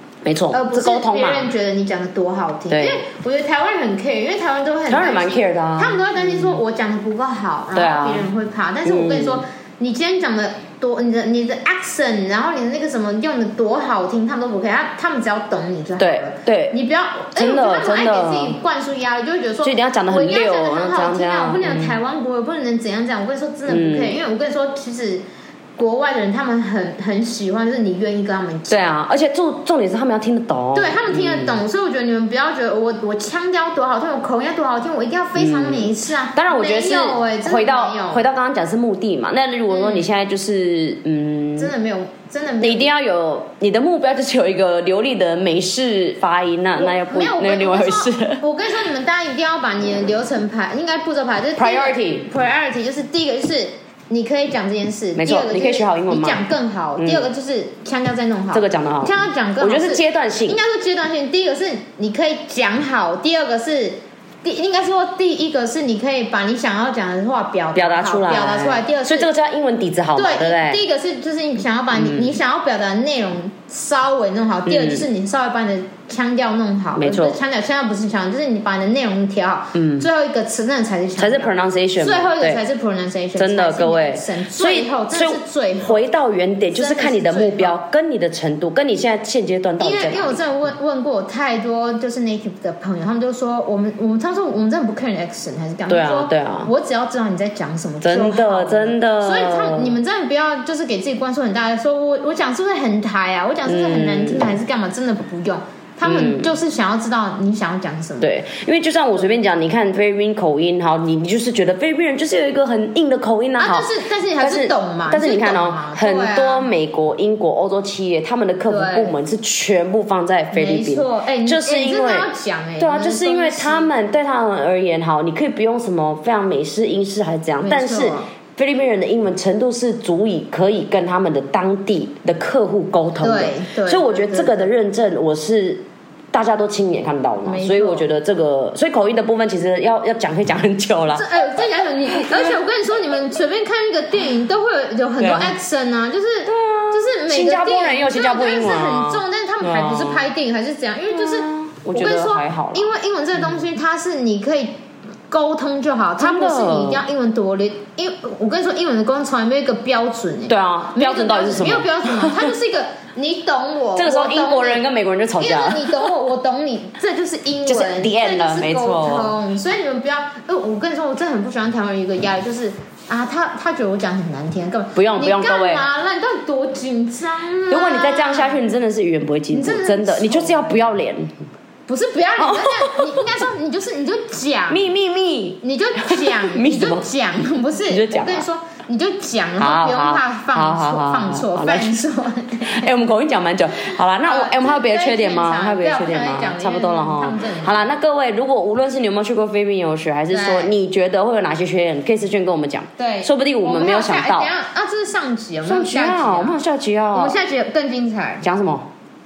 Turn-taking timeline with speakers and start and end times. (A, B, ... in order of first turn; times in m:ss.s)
0:00.2-0:01.5 A
0:00.5-0:25.2 B
0:02.7-0:03.0 A
0:04.9-0:06.6 A
0:07.7-0:08.3 A
0:08.8-0:09.4 A
0:16.0-0:16.8 A
0:17.4-0:18.6 A
0:19.6-0:22.0 A
0:23.7-0:24.2 A
0:25.8-0:28.9 B
0:28.7-0:31.6 A
0:30.7-0:38.2 B
0:35.4-0:41.7 A
0:39.7-0:40.1 B
0:41.6-0:42.9 B
0:42.6-0:48.4 A
0:46.8-1:09.3 B
0:51.6-0:52.3 A
0:55.2-0:56.4 A
0:57.0-0:57.3 A
0:58.5-1:00.6 A
1:07.8-1:10.8 A
1:10.2-1:26.0 B
1:11.9-1:12.4 A
1:14.7-1:15.1 A
1:17.0-1:17.4 A
1:19.7-1:20.1 A
1:21.2-1:22.6 A
1:23.4-1:30.4 A
1:26.7-1:27.8 B
1:29.8-1:48.3 B
1:35.9-1:36.7 A
1:38.0-1:40.0 A
1:43.7-1:44.5 A
1:46.0-1:46.5 A
1:48.2-1:53.9 A
1:53.6-1:56.7 B
1:54.4-2:21.3 A
1:58.7-1:59.1 B
2:00.5-2:03.9 B
2:07.6-2:08.3 B
2:13.2-2:14.7 B
2:17.4-2:18.1 B
2:21.2-2:34.8 B
2:22.1-2:22.6 A
2:25.2-2:25.6 A
2:26.5-2:30.2 A
2:31.1-2:32.9 A
2:35.3-2:44.8 B
2:36.2-2:37.0 A
2:40.5-2:42.5 A
2:44.0-2:46.1 A
2:45.4-2:58.6 B
2:47.6-2:49.4 A
2:55.0-2:55.8 A
2:57.7-3:01.4 A
2:59.5-3:00.8 B
3:01.9-3:04.9 B
3:02.4-3:03.2 A
3:04.7-3:07.0 A
3:05.6-3:12.9 B
3:07.9-3:08.5 A
3:09.6-3:12.0 A
3:12.7-3:24.5 A
3:14.2-3:17.8 B
3:20.3-3:20.7 B
3:23.0-3:26.6 B
3:25.6-3:27.4 A
3:27.1-3:28.4 B
3:28.4-3:28.9 A